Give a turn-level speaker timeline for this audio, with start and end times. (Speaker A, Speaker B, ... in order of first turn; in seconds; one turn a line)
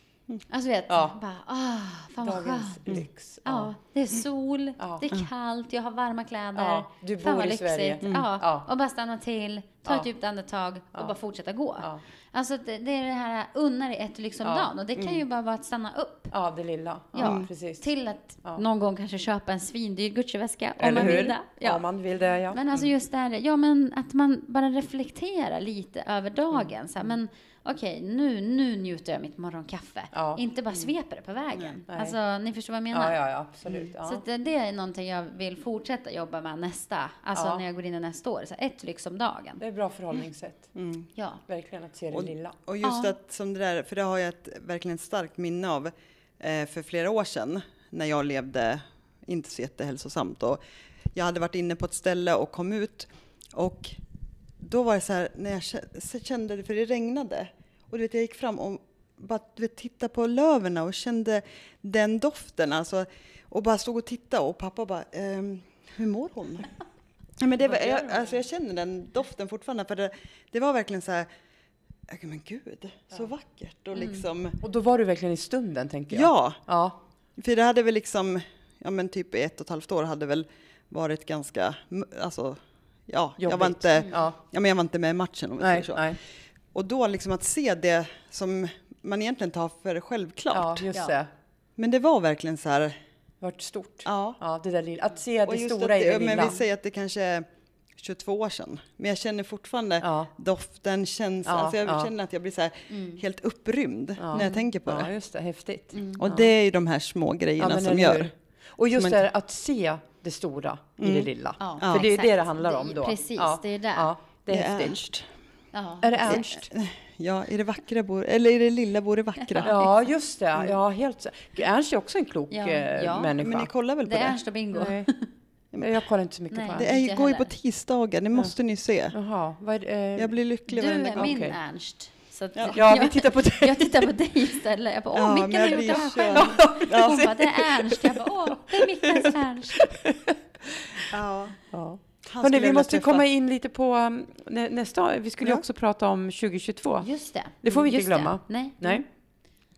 Speaker A: 0.5-16.3
Speaker B: 0.9-1.2
Speaker B: 2.2-3.7
Speaker B: 4.8-5.0
Speaker B: 6.5-8.7
Speaker C: 8.0-8.3
Speaker B: 14.4-14.7
Speaker B: 16.3-17.9
Speaker A: 17.1-21.8
Speaker C: 17.2-17.5
Speaker B: 20.8-22.8
Speaker A: 22.5-33.2
Speaker B: 30.1-30.8
Speaker B: 31.9-32.1
Speaker B: 32.9-34.2
Speaker A: 33.8-39.6
Speaker B: 37.3-37.6
Speaker B: 39.6-40.7
Speaker C: 40.8-41.1
Speaker A: 41.2-41.4
Speaker B: 41.5-42.6
Speaker C: 42.1-50.6
Speaker A: 42.8-43.1
Speaker C: 51.1-54.0
Speaker C: 54.6-66.7
Speaker C: 67.4-71.3
Speaker B: 67.7-68.3
Speaker C: 72.1-74.6
Speaker A: 74.0-74.2
Speaker B: 74.6-77.0
Speaker C: 76.1-76.6
Speaker C: 77.4-86.2
Speaker B: 83.4-84.4
Speaker B: 85.6-86.2
Speaker C: 86.7-90.9
Speaker B: 90.5-91.3
Speaker C: 91.8-93.0
Speaker B: 93.4-96.6
Speaker C: 94.0-94.4
Speaker C: 95.5-97.5
Speaker C: 98.0-105.1
Speaker B: 100.0-100.3
Speaker B: 101.5-102.1
Speaker A: 102.9-103.2
Speaker B: 104.2-106.5
Speaker A: 104.3-104.7
Speaker A: 105.9-106.3
Speaker C: 106.2-108.3
Speaker B: 107.6-115.0
Speaker C: 109.0-109.2
Speaker C: 111.0-112.1
Speaker A: 111.6-114.1
Speaker C: 114.5-115.3
Speaker A: 115.7-116.4
Speaker B: 116.0-116.7
Speaker C: 116.3-119.8
Speaker A: 119.5-119.8
Speaker B: 119.6-123.7
Speaker A: 122.5-123.4
Speaker C: 123.4-124.4
Speaker A: 124.0-125.2
Speaker B: 124.7-125.1
Speaker B: 125.8-126.9
Speaker A: 126.5-127.5
Speaker C: 126.8-129.2
Speaker B: 129.1-130.3
Speaker C: 130.2-131.3
Speaker A: 130.7-139.9
Speaker B: 131.2-131.6
Speaker B: 132.7-134.1
Speaker C: 135.1-137.4
Speaker B: 136.3-141.1
Speaker C: 141.1-141.6
Speaker B: 141.7-147.1
Speaker C: 142.2-143.3
Speaker A: 147.0-149.0
Speaker B: 147.6-149.1